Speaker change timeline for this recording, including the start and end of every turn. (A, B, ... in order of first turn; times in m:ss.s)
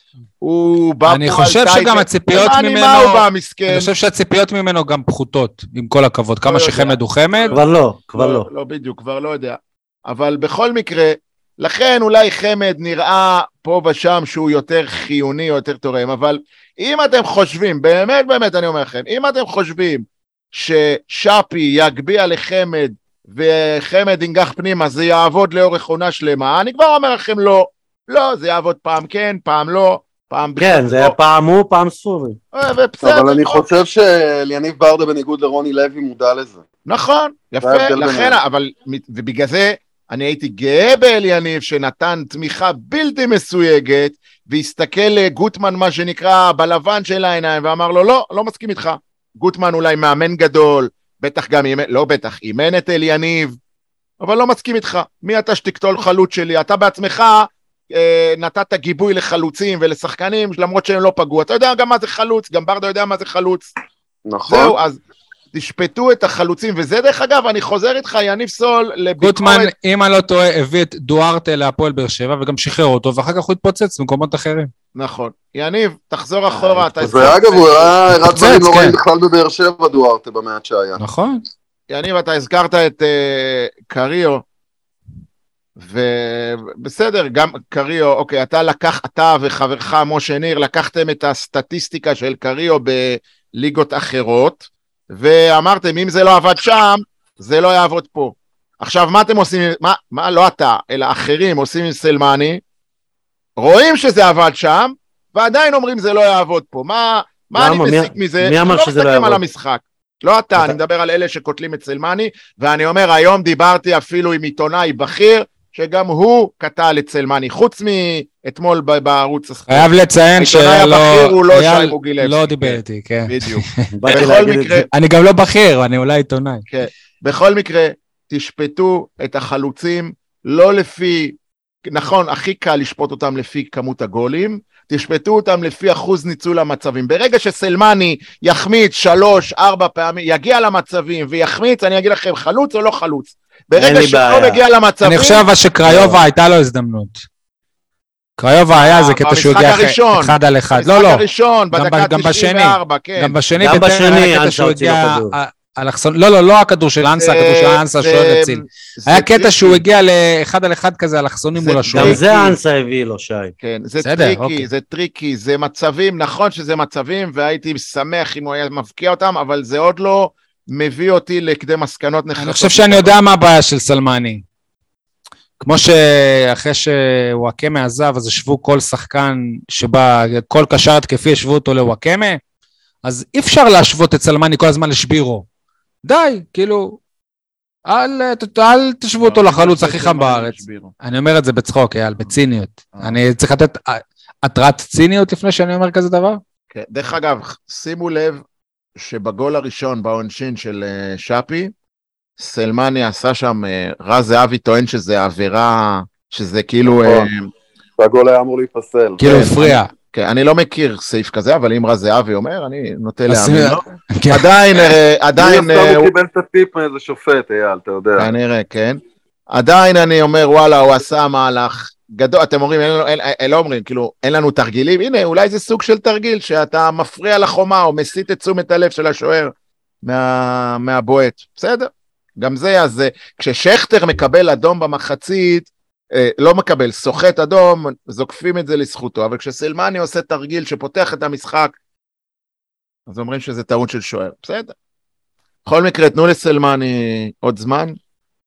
0:00.4-0:03.9 A
0:01.1-0:07.6 B
0:06.5-0:07.6 A
0:07.5-0:08.5 C
0:08.2-0:31.1 A
0:30.6-0:32.4 C
0:32.5-0:33.6 A
0:33.0-0:36.6 D
0:36.9-0:53.6 A
0:37.6-0:38.4 D
0:54.2-1:03.7 A
1:04.3-1:04.8 D
1:04.5-1:05.0 A
1:05.5-1:09.7 A
1:09.2-1:14.7 B
1:14.9-1:18.0 A
1:17.0-1:21.0 D
1:18.1-1:18.9 B
1:21.0-1:21.4 B
1:21.9-1:24.4 A
1:25.8-1:42.6 A
1:43.6-2:04.9 A
1:47.6-1:49.4 C
1:59.7-2:03.9 B
2:03.9-2:04.9 C
2:04.9-2:06.6 B
2:06.7-2:25.5 A
2:23.8-2:24.6 C
2:25.0-2:27.2 B
2:25.9-2:26.2 C
2:28.4-2:42.2 B
2:28.7-2:33.4 A
2:33.6-2:35.4 C
2:37.1-2:39.8 A
2:41.6-2:42.6 A
2:41.9-2:43.5 C
2:43.6-2:53.1 A
2:44.0-2:44.7 B
2:52.4-2:54.4 B
2:55.6-3:02.4 B
3:03.0-3:05.4 B
3:06.0-3:07.0 B
3:07.9-3:16.4 B
3:09.2-3:10.9 A
3:16.7-3:18.4 A
3:19.0-3:21.7 A
3:22.4-3:27.5 A
3:26.9-3:27.3 D
3:28.0-3:29.4 D
3:29.2-3:29.9 B
3:29.2-3:36.1 A
3:33.3-3:34.5 B
3:35.4-3:38.3 D
3:38.2-4:01.8 A
4:03.1-4:04.7 A
4:05.6-4:08.0 A